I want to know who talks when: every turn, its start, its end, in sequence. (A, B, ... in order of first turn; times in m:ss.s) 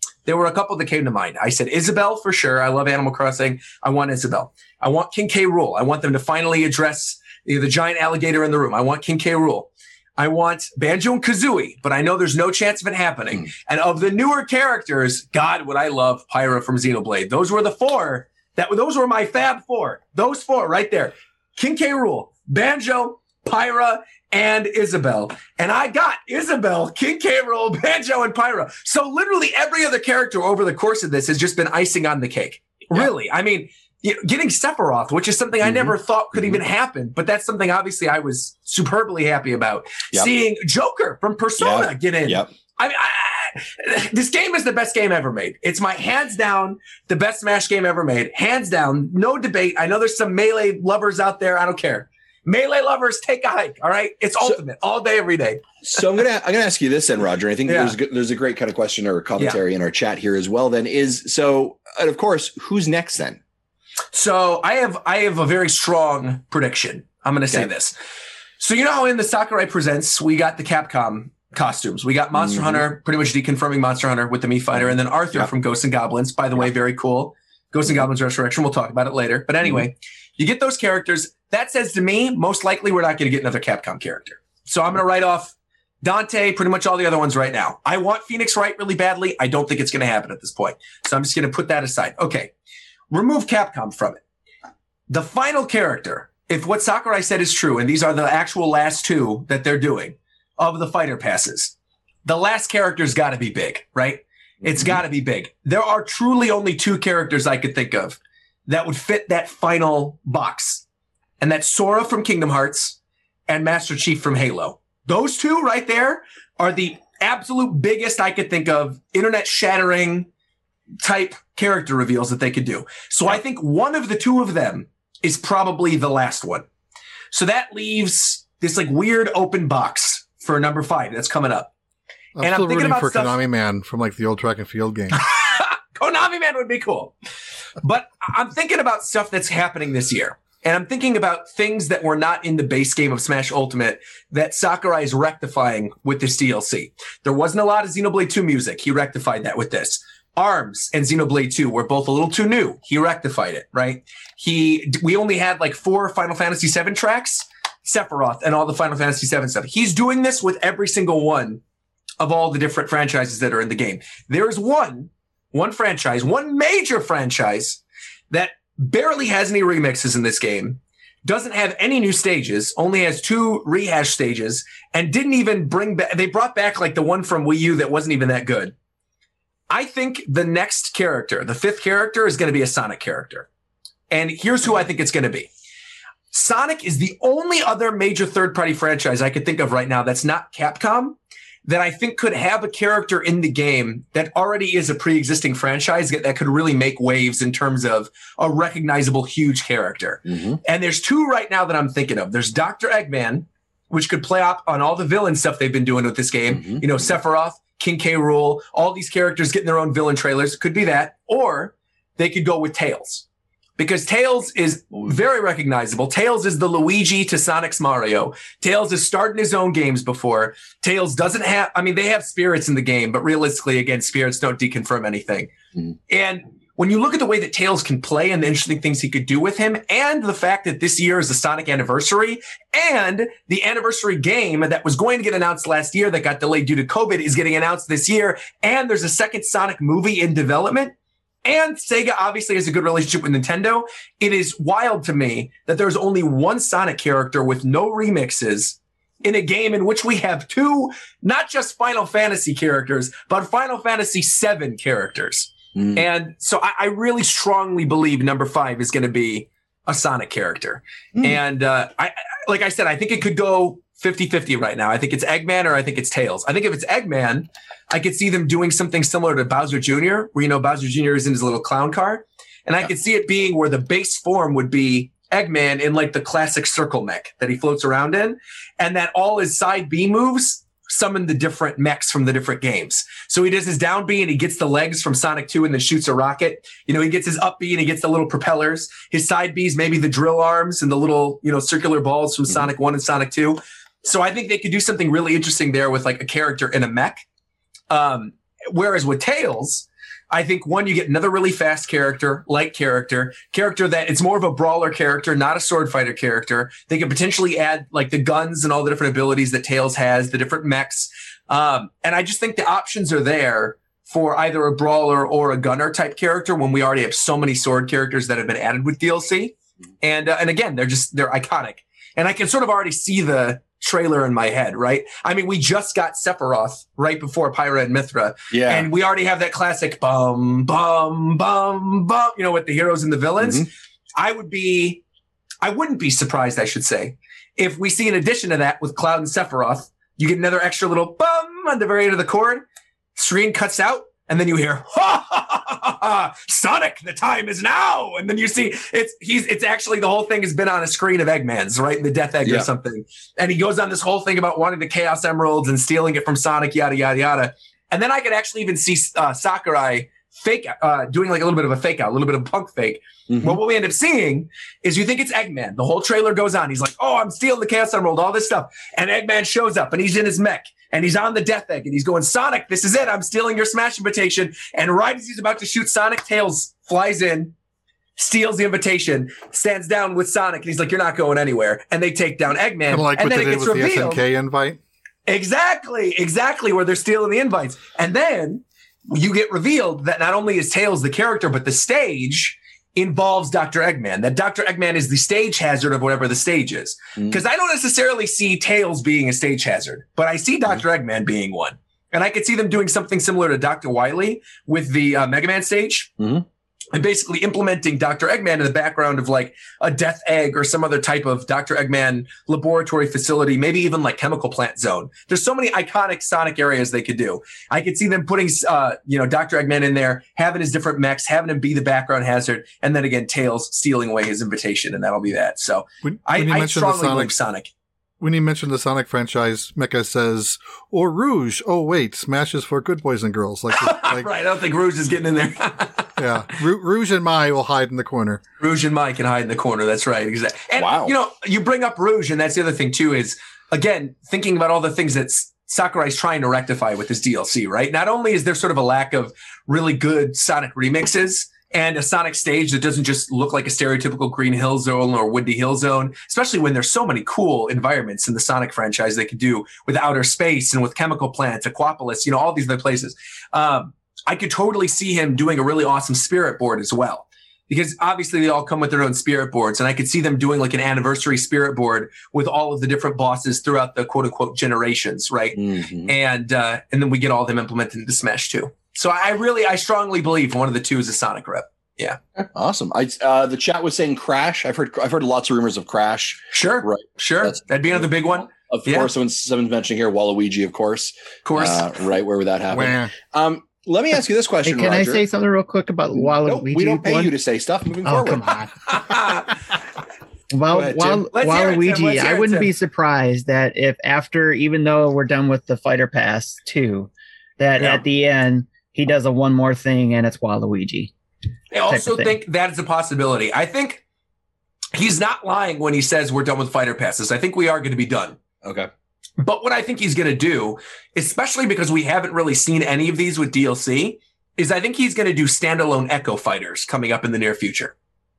0:00.2-0:56.0 A
0:35.6-0:36.6 B
0:41.6-0:42.5 B
0:55.8-1:03.4 B
0:57.6-0:58.0 A
1:04.1-1:07.9 A
1:08.6-1:32.5 A
1:12.3-1:12.8 B
1:14.7-1:15.5 B
1:33.1-1:34.2 A
1:35.1-1:50.8 A
1:44.6-1:45.0 B
1:51.4-2:00.3 A
2:01.0-2:06.6 A
2:07.3-2:11.7 A
2:12.4-2:15.2 C
2:12.4-2:13.4 A
2:15.1-2:17.1 A
2:17.8-2:41.6 A
2:42.2-2:58.7 A
2:59.7-3:03.5 A
3:04.1-3:05.5 A
3:06.3-3:33.2 A
3:20.3-3:20.6 B
3:26.5-3:27.1 B
3:33.8-3:45.5 A
3:46.1-4:57.2 A
4:15.8-4:16.0 B
4:57.9-5:35.0 A
5:28.5-5:28.9 B
5:33.4-5:33.7 B
5:35.6-5:42.6 A
5:43.2-6:17.5 A
6:03.3-6:03.6 B
6:18.2-6:24.2 A
6:22.9-6:24.8 C
6:25.3-6:46.1 A
6:46.2-6:46.4 B
6:46.9-7:07.7 A
7:06.0-7:07.3 C
7:08.2-7:14.3 C
7:13.7-7:16.2 A
7:16.2-7:18.4 C
7:18.6-8:02.2 A
7:20.8-7:21.1 B
7:55.5-7:56.1 B
8:02.4-8:15.2 B
8:06.5-8:09.1 A
8:11.4-8:11.9 A
8:12.7-8:13.1 C
8:14.6-8:17.3 D
8:16.2-8:18.5 B
8:18.0-8:19.0 D
8:18.9-8:19.5 A
8:20.5-8:31.1 D
8:20.8-8:22.7 A
8:31.7-8:34.0 A
8:31.9-8:32.4 D
8:34.9-8:38.4 A
8:38.6-8:38.9 B
8:39.4-8:47.9 A